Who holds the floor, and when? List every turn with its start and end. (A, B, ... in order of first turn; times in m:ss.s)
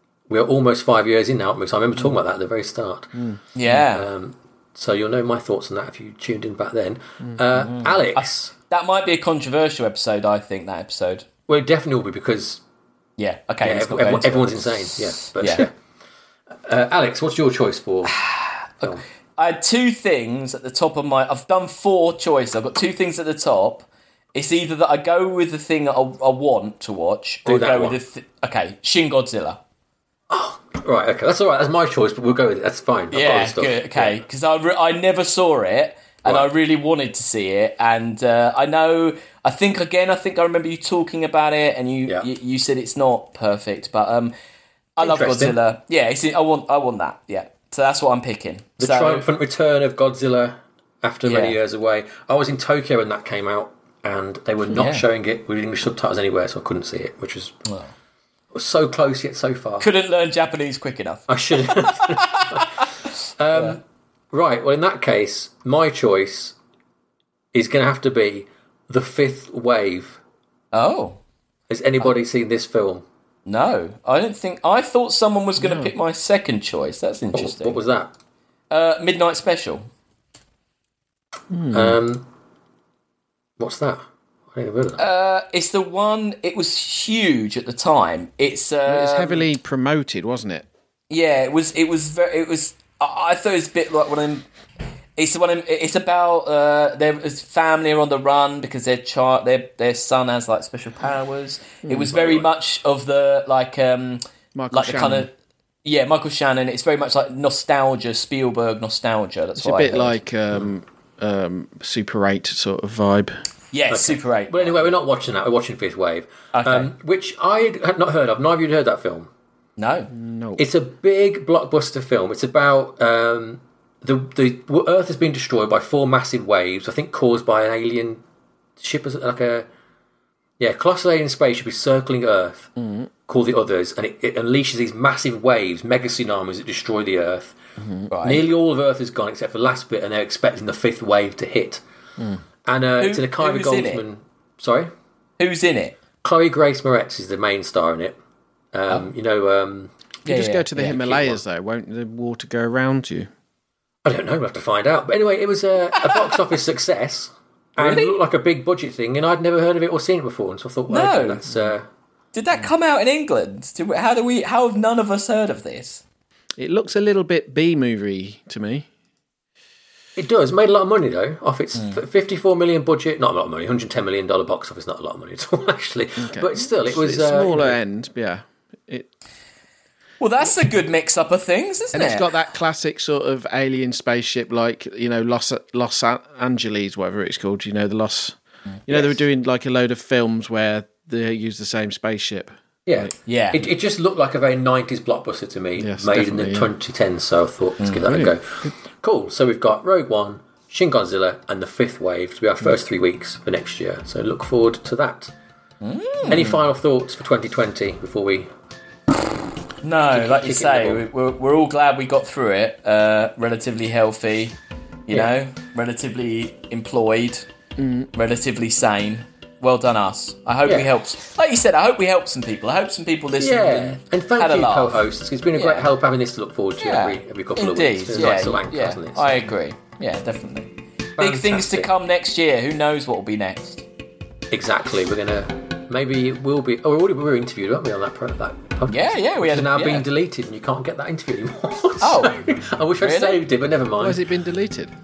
0:00.3-0:03.2 A
0:03.2-0:03.4 B
0:03.5-0:04.0 C
0:03.7-0:08.5 A
0:07.6-0:11.2 C
0:11.5-0:12.6 A
0:13.2-0:15.7 C
0:13.6-0:15.7 A
0:16.6-0:18.2 A
0:18.1-0:18.8 C
0:19.4-0:29.6 C
0:27.4-0:28.0 A
0:30.3-0:34.2 A
0:33.1-0:44.3 C
0:45.0-0:49.3 C
0:45.0-0:45.6 A
0:48.8-0:57.6 A
0:51.2-0:51.6 C
0:54.7-0:55.0 C
0:57.6-0:57.9 C
0:58.5-0:59.9 A
0:59.8-1:01.3 C
1:01.3-1:03.8 A
1:01.8-1:03.8 C
1:04.3-1:06.6 A
1:07.5-1:10.2 A
1:10.7-1:11.2 C
1:11.7-1:13.0 A
1:13.4-1:17.8 C
1:15.6-1:15.9 B
1:17.3-1:18.1 A
1:18.7-1:19.9 C
1:21.5-1:22.0 B
1:21.7-1:22.2 A
1:23.6-1:25.0 A
1:25.0-1:29.4 C
1:28.8-1:30.6 B
1:31.1-1:34.5 C
1:35.2-1:45.3 C
1:41.8-1:42.1 B
1:42.1-1:42.4 A
1:44.5-1:45.3 B
1:45.8-1:50.2 C
1:49.6-1:53.3 B
1:53.7-1:54.8 C
1:53.9-1:59.3 A
1:56.5-1:56.9 C
1:59.8-2:00.1 C
2:00.1-2:00.6 B
2:00.6-2:08.2 A
2:08.8-2:09.7 A
2:10.6-2:12.8 A
2:12.8-2:13.1 B
2:13.3-2:17.6 A
2:17.8-2:18.1 B
2:18.1-2:18.4 C
2:18.2-2:21.8 A
2:22.6-2:24.9 A
2:23.0-2:24.0 C
2:25.4-2:26.0 C
2:26.2-2:28.2 A
2:28.7-2:29.9 A
2:30.2-2:31.3 C
2:30.2-2:33.3 B
2:30.9-2:31.4 A
2:34.0-2:41.8 A
2:37.8-2:38.1 C
2:40.9-2:41.4 C
2:42.3-2:46.0 C
2:46.6-2:48.9 B
2:50.2-2:57.8 A
2:56.2-2:59.1 B
3:00.2-3:02.3 C
3:01.9-3:13.1 B
3:12.8-3:25.3 A
3:13.2-3:13.6 C
3:15.8-3:16.7 B
3:17.8-3:18.0 C
3:18.0-3:18.7 B
3:25.8-3:26.5 C
3:26.2-3:28.5 A
3:29.8-3:34.6 C
3:30.1-3:31.0 A
3:35.1-3:37.5 C
3:37.8-3:38.1 B
3:38.1-3:45.0 C
3:43.4-3:49.5 A
3:45.5-3:45.9 C
3:46.8-3:53.8 C
3:51.2-3:51.9 A
3:54.5-4:04.2 A
3:58.9-4:00.1 C
4:02.0-4:02.4 C
4:03.0-4:03.4 C
4:04.0-4:04.9 B